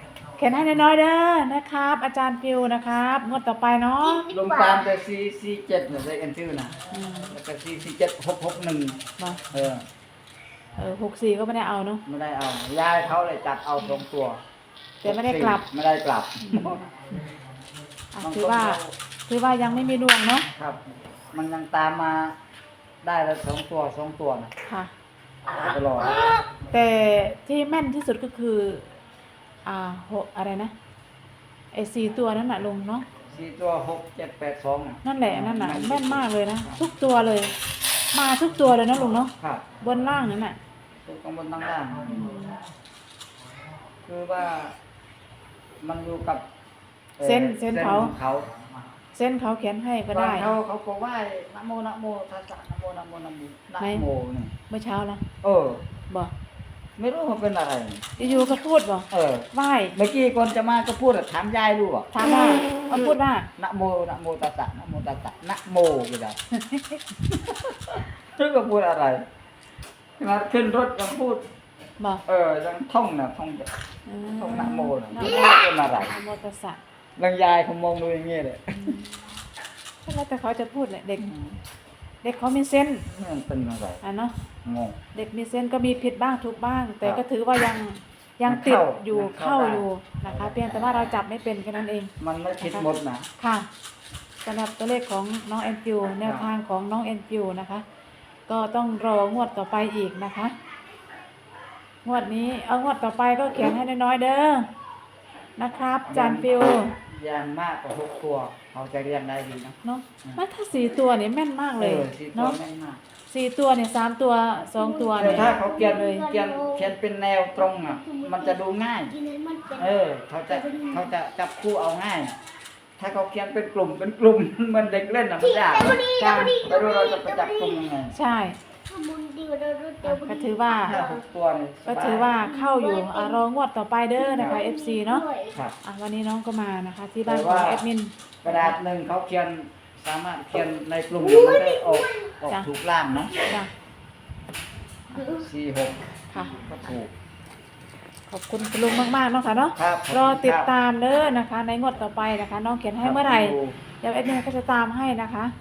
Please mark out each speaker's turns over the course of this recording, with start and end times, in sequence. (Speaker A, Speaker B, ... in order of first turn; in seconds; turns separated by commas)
Speaker A: 0.4-4.3, Speaker B: 4.0-4.9, Speaker C: 4.3-6.7, Speaker A: 6.9-7.3, Speaker C: 7.3-9.0, Speaker C: 9.5-9.8, Speaker A: 10.8-12.0, Speaker C: 12.1-14.4, Speaker A: 15.0-15.7, Speaker C: 15.0-16.8, Speaker A: 16.4-16.9, Speaker A: 18.1-20.5, Speaker C: 18.2-19.0, Speaker C: 20.6-22.4, Speaker C: 23.0-24.5, Speaker A: 24.7-24.9, Speaker C: 25.6-26.2, Speaker B: 26.1-26.4, Speaker A: 26.7-28.9, Speaker A: 29.6-30.7, Speaker A: 31.7-33.1, Speaker C: 33.3-36.8, Speaker A: 35.0-37.5, Speaker A: 38.1-40.6, Speaker C: 39.4-39.6, Speaker C: 41.0-42.3, Speaker A: 42.1-42.6, Speaker C: 44.0-44.8, Speaker C: 45.8-46.4, Speaker C: 47.2-48.7, Speaker A: 47.2-48.1, Speaker A: 49.1-50.5, Speaker C: 50.1-54.5, Speaker A: 54.7-55.2, Speaker C: 55.4-55.8, Speaker C: 57.0-58.0, Speaker A: 58.2-60.0, Speaker C: 59.1-62.1, Speaker A: 62.1-63.5, Speaker C: 63.6-66.4, Speaker A: 66.5-67.0, Speaker C: 67.3-69.2, Speaker C: 70.2-71.4, Speaker C: 72.3-73.7, Speaker A: 74.1-76.8, Speaker C: 74.4-76.2, Speaker C: 77.2-79.0, Speaker A: 78.7-79.2, Speaker A: 80.0-81.3, Speaker C: 81.2-81.6, Speaker A: 82.2-83.1, Speaker C: 83.1-84.0, Speaker A: 84.0-84.3, Speaker C: 84.6-85.0, Speaker A: 85.1-92.9, Speaker C: 88.5-91.0, Speaker C: 92.2-93.3, Speaker A: 93.4-93.7, Speaker A: 94.4-97.8, Speaker C: 96.2-96.5, Speaker A: 98.5-100.5, Speaker A: 102.0-104.7, Speaker A: 105.6-107.0, Speaker C: 106.1-110.4, Speaker A: 109.8-112.6, Speaker C: 111.8-113.0, Speaker A: 113.3-116.2, Speaker B: 114.7-116.9, Speaker C: 115.2-119.1, Speaker B: 117.6-119.9, Speaker C: 119.8-122.3, Speaker B: 120.5-121.1, Speaker C: 123.0-126.0, Speaker B: 125.4-127.9, Speaker A: 126.2-126.5, Speaker C: 126.6-128.2, Speaker A: 128.1-128.6, Speaker B: 128.9-131.2, Speaker A: 130.0-130.9, Speaker C: 130.8-132.4, Speaker A: 131.9-135.2, Speaker B: 132.4-133.4, Speaker B: 134.2-135.6, Speaker A: 135.8-138.8, Speaker C: 137.2-137.8, Speaker C: 138.4-143.3, Speaker B: 141.2-142.4, Speaker B: 145.1-145.5, Speaker C: 145.2-146.0, Speaker C: 146.5-147.1, Speaker A: 148.3-155.5, Speaker C: 149.8-150.7, Speaker C: 153.0-153.8